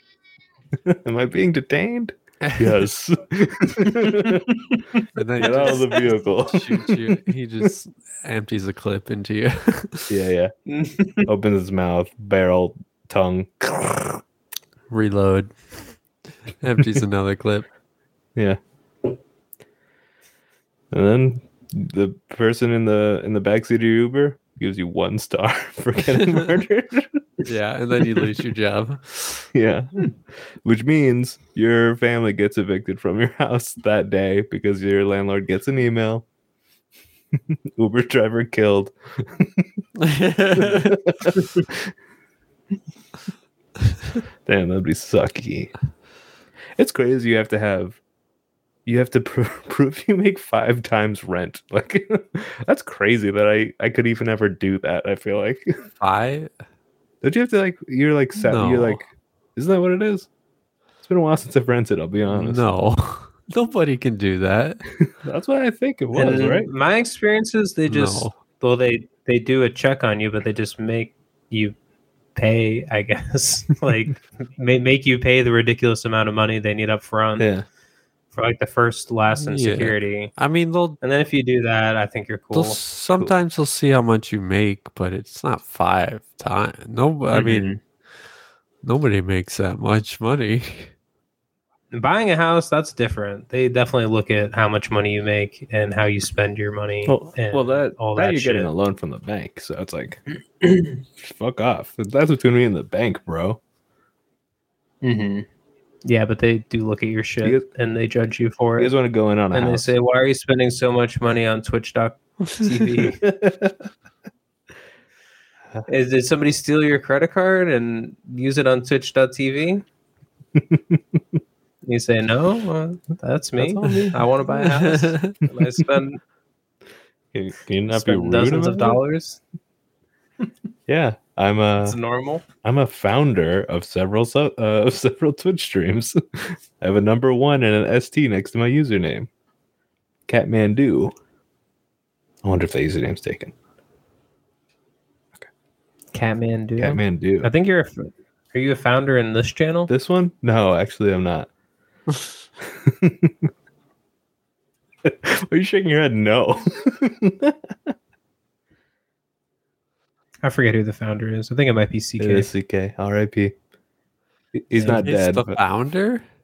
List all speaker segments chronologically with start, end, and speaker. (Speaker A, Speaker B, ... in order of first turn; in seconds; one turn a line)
Speaker A: 0.8-7.7
Speaker B: 2.4-2.7
Speaker B: 5.2-10.1
Speaker A: 10.1-10.5
Speaker C: 10.7-11.3
Speaker A: 11.3-14.2
Speaker B: 14.9-15.6
Speaker B: 16.6-17.7
Speaker A: 20.9-27.4
Speaker B: 27.4-29.4
Speaker A: 29.5-30.1
Speaker A: 30.6-36.2
Speaker A: 37.4-39.7
Speaker B: 40.0-41.0
Speaker A: 40.5-41.9
Speaker A: 44.5-45.7
Speaker A: 46.8-48.0
Speaker A: 48.9-55.7
Speaker B: 56.0-56.5
Speaker A: 57.2-59.0
Speaker B: 58.4-59.0
Speaker A: 59.6-60.3
Speaker A: 61.0-62.6
Speaker B: 62.3-64.8
Speaker A: 65.1-66.7
Speaker C: 66.2-71.8
Speaker B: 67.9-68.3
Speaker C: 72.3-77.5
Speaker A: 77.4-77.7
Speaker C: 78.3-80.3
Speaker B: 79.4-81.0
Speaker C: 81.0-82.8
Speaker B: 82.5-87.8
Speaker C: 87.3-87.8
Speaker B: 88.8-90.9
Speaker C: 91.9-98.7
Speaker A: 97.1-100.2
Speaker C: 100.6-101.0
Speaker A: 101.2-103.6
Speaker C: 105.0-105.5
Speaker C: 106.0-108.9
Speaker A: 108.8-109.9
Speaker C: 109.5-113.2
Speaker A: 113.2-113.8
Speaker C: 115.9-119.8
Speaker A: 120.6-121.2
Speaker C: 121.8-126.2
Speaker A: 123.6-124.2
Speaker B: 123.8-125.4
Speaker A: 127.3-129.0
Speaker C: 127.9-129.4
Speaker A: 130.9-132.0
Speaker C: 131.8-132.4
Speaker A: 132.6-139.3
Speaker A: 140.3-141.1
Speaker A: 142.4-143.5
Speaker C: 146.1-149.9
Speaker A: 146.8-147.5
Speaker A: 149.9-151.5
Speaker A: 152.6-153.5
Speaker A: 155.0-157.9
Speaker C: 160.4-162.5
Speaker A: 162.2-163.5
Speaker A: 164.5-165.6
Speaker C: 164.8-165.1
Speaker B: 164.8-166.2